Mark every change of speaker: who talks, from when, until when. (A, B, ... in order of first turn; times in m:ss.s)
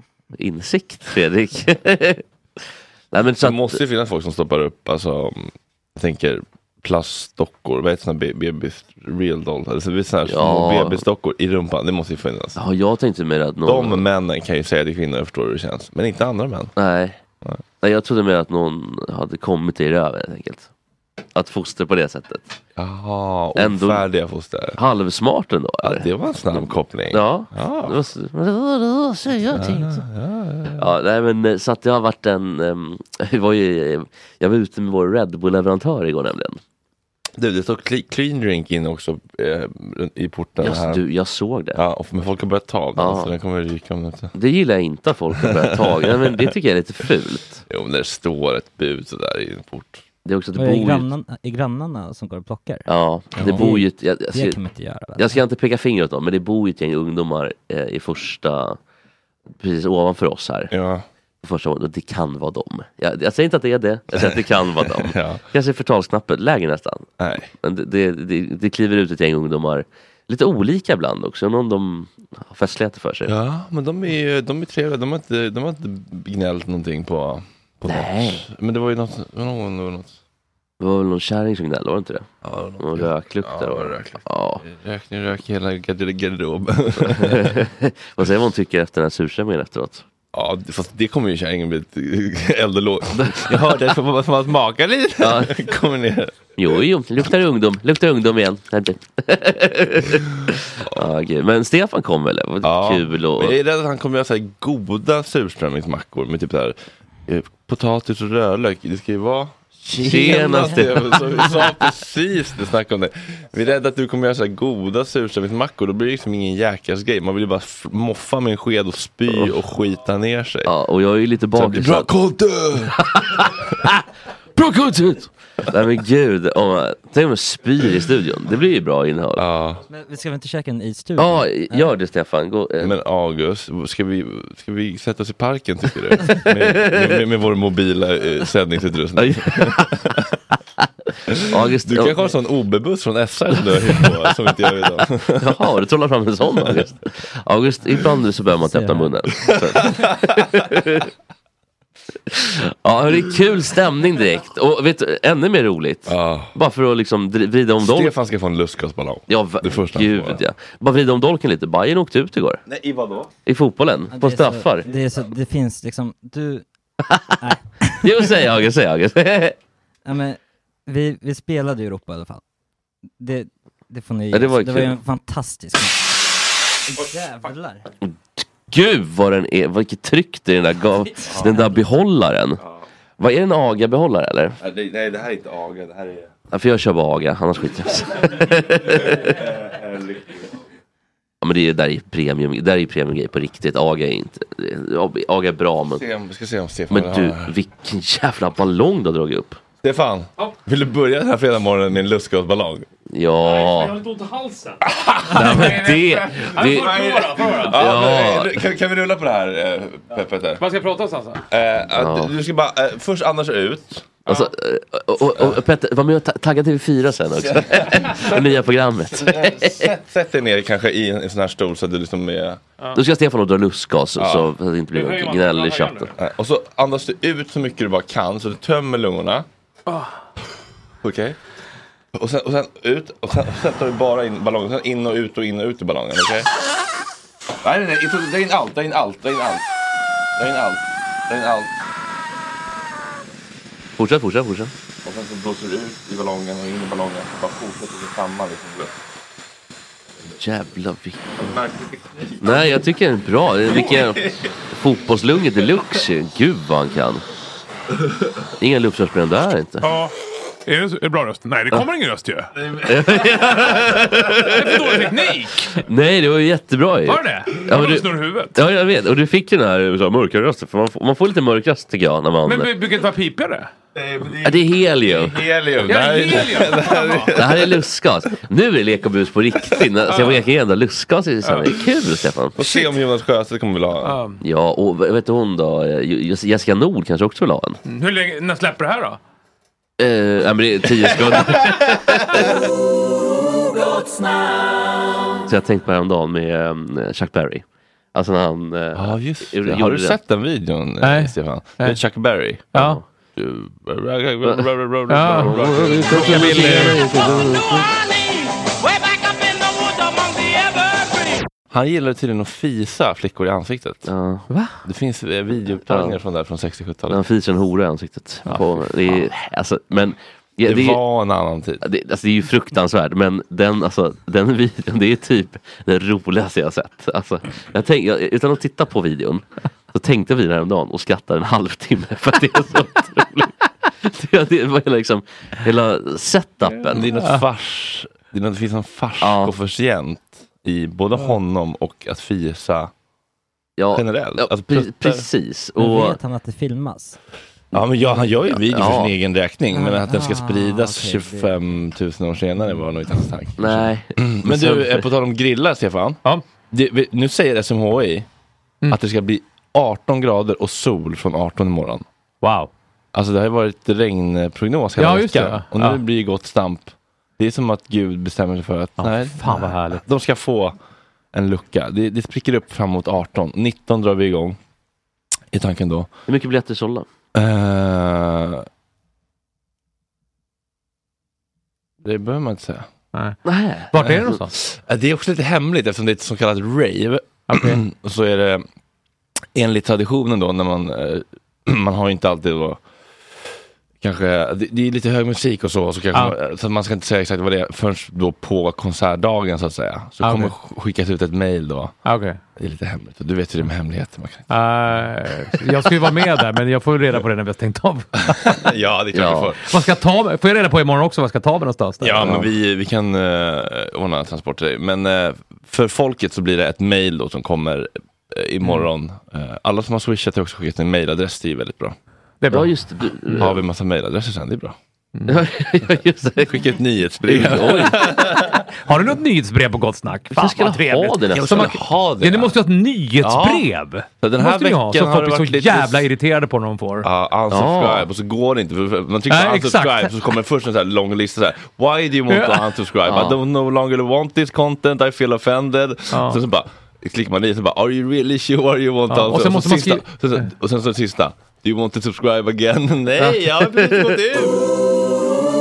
0:00.3-0:03.8 A
0:03.4-0:12.6 B
0:10.3-0:11.0 A
0:12.6-0:14.0 A
0:13.7-0:16.7 B
0:16.8-0:17.2 A
0:17.8-0:20.7 A
0:21.4-0:22.6 A
0:22.8-0:24.8 B
0:23.6-0:24.0 A
0:24.8-0:30.0 A
0:25.8-0:28.0 B
0:29.5-0:30.8 B
0:30.8-0:36.6 A
0:37.4-0:41.0 B
0:40.6-0:41.8 A
0:41.8-0:44.3 B
0:43.0-0:43.3 A
0:44.3-0:47.6 A
0:45.8-0:46.4 B
0:47.7-0:50.0 B
0:50.2-0:51.1 A
0:50.6-0:52.9 C
0:52.9-0:54.6 A
0:53.4-0:53.6 B
0:53.5-0:55.4 C
0:55.2-0:58.8 A
0:59.6-1:00.7 A
1:00.7-1:01.0 B
1:01.4-1:13.3 A
1:05.0-1:05.4 B
1:07.2-1:07.5 B
1:13.3-1:20.2 B
1:17.9-1:18.4 A
1:20.8-1:22.3 A
1:22.4-1:27.6 B
1:22.8-1:24.6 A
1:27.0-1:30.0 A
1:30.3-1:36.6 B
1:33.2-1:33.6 A
1:35.2-1:35.7 A
1:36.6-1:43.6 A
1:42.6-2:00.7 B
1:50.0-1:51.7 A
1:59.3-1:59.6 A
2:00.6-2:02.1 A
2:01.5-2:03.0 B
2:03.0-2:04.0 A
2:04.6-2:09.4 A
2:09.4-2:09.8 B
2:09.9-2:11.9 C
2:11.2-2:12.9 A
2:12.8-2:20.2 B
2:16.2-2:17.2 A
2:19.2-2:20.1 A
2:20.8-2:22.3 A
2:21.3-2:25.6 B
2:25.3-2:31.1 A
2:28.7-2:29.3 C
2:29.8-2:30.3 B
2:32.3-2:38.1 A
2:36.1-2:36.5 B
2:37.8-2:40.4 B
2:39.3-2:42.6 A
2:42.7-2:43.3 B
2:43.4-2:44.9 A
2:44.1-2:46.6 C
2:47.4-2:48.3 C
2:48.0-2:49.6 A
2:50.0-2:52.4 C
2:53.2-2:56.0 C
2:54.3-2:55.0 A
2:56.9-2:57.9 C
2:58.1-3:02.6 A
3:01.2-3:01.7 C
3:01.3-3:01.6 B
3:03.2-3:04.6 A
3:04.6-3:06.3 B
3:06.5-3:09.4 A
3:08.2-3:10.5 B
3:11.4-3:16.0 A
3:16.0-3:17.5 B
3:16.9-3:19.6 A
3:19.8-3:22.9 B
3:23.1-3:24.0 A
3:23.4-3:27.8 D
3:24.8-3:30.6 B
3:25.3-3:28.6 A
3:30.6-3:31.4 D
3:31.5-3:34.3 B
3:32.0-3:32.3 A
3:34.3-3:39.9 A
3:37.4-3:38.6 B
3:39.1-3:42.6 B
3:42.9-3:46.1 A
3:44.2-3:44.5 B
3:44.9-3:46.1 D
3:46.1-3:49.4 B
3:49.9-3:50.1 D
3:51.0-3:51.4 B
3:52.1-3:56.5 B
3:57.6-3:59.6 B
4:00.4-4:01.7 B
4:04.0-4:04.7 A
4:05.0-4:08.9 B
4:10.4-4:11.3 A
4:11.4-4:12.8 B
4:12.4-4:17.2 A
4:13.7-4:14.5 B
4:18.6-4:19.9 A
4:19.8-4:20.1 D
4:20.7-4:22.5 D
4:22.6-4:23.7 B
4:22.8-4:24.9 A
4:24.3-4:25.8 D
4:25.8-4:32.7 A
4:27.0-4:28.6 D
4:32.4-4:33.7 D
4:33.9-4:37.9 B
4:34.4-4:35.4 A
4:35.8-4:37.3 D
4:37.3-4:42.6 A
4:41.4-4:41.7 D
4:42.6-4:44.2 B
4:44.0-4:44.4 D
4:44.4-4:47.8 A
4:47.8-4:49.2 D
4:50.0-4:52.5 A
4:55.4-5:00.2 A
4:58.9-5:02.7 B
5:01.0-5:02.0 D
5:02.7-5:03.0 D
5:02.8-5:03.0 A
5:03.4-5:07.6 B
5:05.1-5:07.6 D
5:05.4-5:07.9 A
5:11.7-5:14.1 B
5:14.1-5:14.5 A
5:14.5-5:14.8 D
5:14.8-5:17.2 B
5:15.9-5:16.2 A
5:17.1-5:21.0 A
5:20.7-5:21.8 B
5:21.8-5:37.1 A
5:36.7-5:42.9 B
5:39.2-5:39.5 A
5:43.8-5:46.2 A
5:43.9-5:45.2 B
5:45.8-5:47.2 C
5:47.7-5:56.2 B
5:48.5-5:49.1 A
5:49.7-5:51.6 C
5:53.6-5:55.0 A
5:56.7-5:58.3 B
5:58.9-6:02.0 B
6:02.4-6:02.7 D
6:03.1-6:10.8 B
6:05.0-6:06.0 D
6:09.0-6:10.0 D
6:11.3-6:14.6 B
6:15.5-6:16.1 B
6:16.3-6:17.1 A
6:17.3-6:18.7 B
6:22.0-6:22.9 B
6:23.4-6:24.3 A
6:23.9-6:24.5 D
6:24.3-6:28.6 B
6:27.5-6:27.8 D
6:29.6-6:32.8 B
6:34.0-6:42.0 B
6:40.2-6:40.5 D
6:42.0-6:42.4 D
6:42.6-6:44.5 B
6:44.5-6:48.4 D
6:48.2-6:49.7 B
6:49.1-6:49.5 A
6:49.6-6:52.4 D
6:52.0-7:02.0 B
6:52.2-6:52.5 A
7:02.4-7:02.7 D
7:02.5-7:03.6 A
7:03.4-7:04.8 B
7:05.3-7:06.6 A
7:06.4-7:08.6 B
7:07.2-7:08.4 A
7:08.7-7:17.1 D
7:10.3-7:11.7 A
7:11.3-7:12.6 B
7:13.2-7:16.1 B
7:17.0-7:34.7 B
7:17.5-7:18.1 A
7:19.3-7:20.1 D
7:22.3-7:22.7 D
7:23.1-7:23.4 A
7:26.1-7:26.4 D
7:29.1-7:30.4 D
7:33.5-7:34.1 A